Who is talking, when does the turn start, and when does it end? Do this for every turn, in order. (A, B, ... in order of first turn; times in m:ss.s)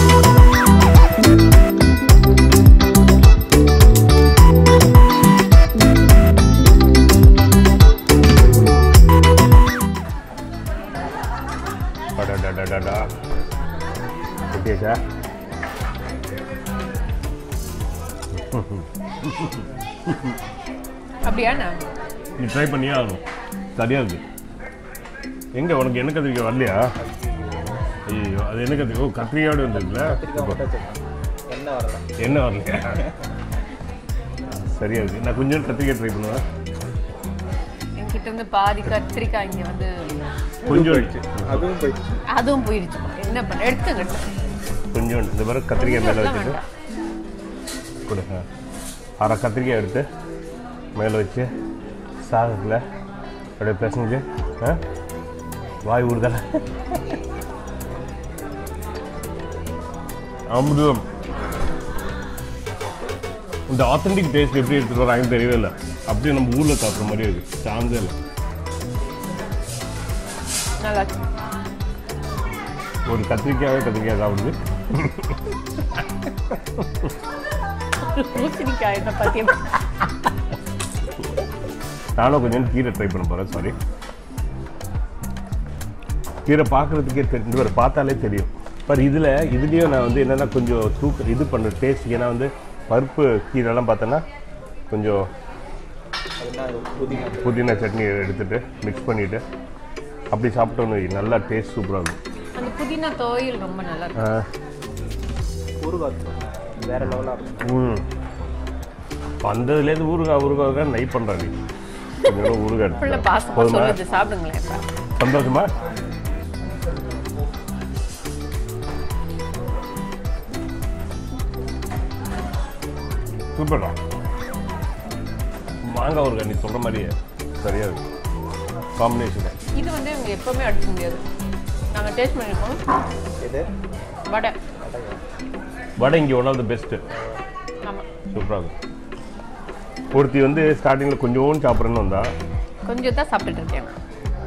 0:12.2-0:13.1 A
0:14.5-0:15.0 A
0:18.3-0:20.4 A
0:21.2-0:21.8 B
0:22.4-0:23.2 A
0:23.8-0:24.2 A
0:25.6-0:26.9 A
0:27.0-0:27.8 C
0:28.1-0:30.6 A
0:29.9-0:32.1 C
0:32.2-0:33.1 A
0:34.6-0:36.4 A
0:38.0-0:40.1 B
0:40.6-0:42.2 C
0:40.6-0:41.6 A
0:42.3-0:44.2 B
0:44.9-0:46.6 A
0:45.7-0:46.6 B
0:48.0-0:48.4 A
0:49.2-0:50.0 A
0:51.0-0:51.5 A
0:52.2-0:52.8 A
0:53.6-0:54.8 A
0:55.8-0:57.0 A
1:00.5-1:01.0 A
1:03.7-1:08.2 A
1:10.8-1:11.1 B
1:13.1-1:17.1 A
1:18.0-1:20.3 B
1:22.2-1:23.7 A
1:26.4-1:34.2 A
1:34.9-1:35.3 A
1:36.4-1:37.6 C
1:37.4-1:39.4 A
1:40.3-1:42.2 A
1:42.6-1:44.2 B
1:44.2-1:44.4 A
1:45.8-1:47.7 C
1:47.0-1:48.0 A
1:49.4-1:51.5 A
1:52.2-1:54.0 A
1:53.0-1:54.8 B
1:55.2-1:55.7 A
2:03.5-2:04.0 A
2:05.9-2:08.0 A
2:09.0-2:09.5 A
2:09.8-2:11.2 B
2:11.9-2:12.8 B
2:13.4-2:13.7 C
2:14.3-2:14.6 B
2:14.8-2:15.2 C
2:16.0-2:17.0 A
2:18.3-2:18.7 A
2:20.1-2:22.3 A
2:22.8-2:24.0 B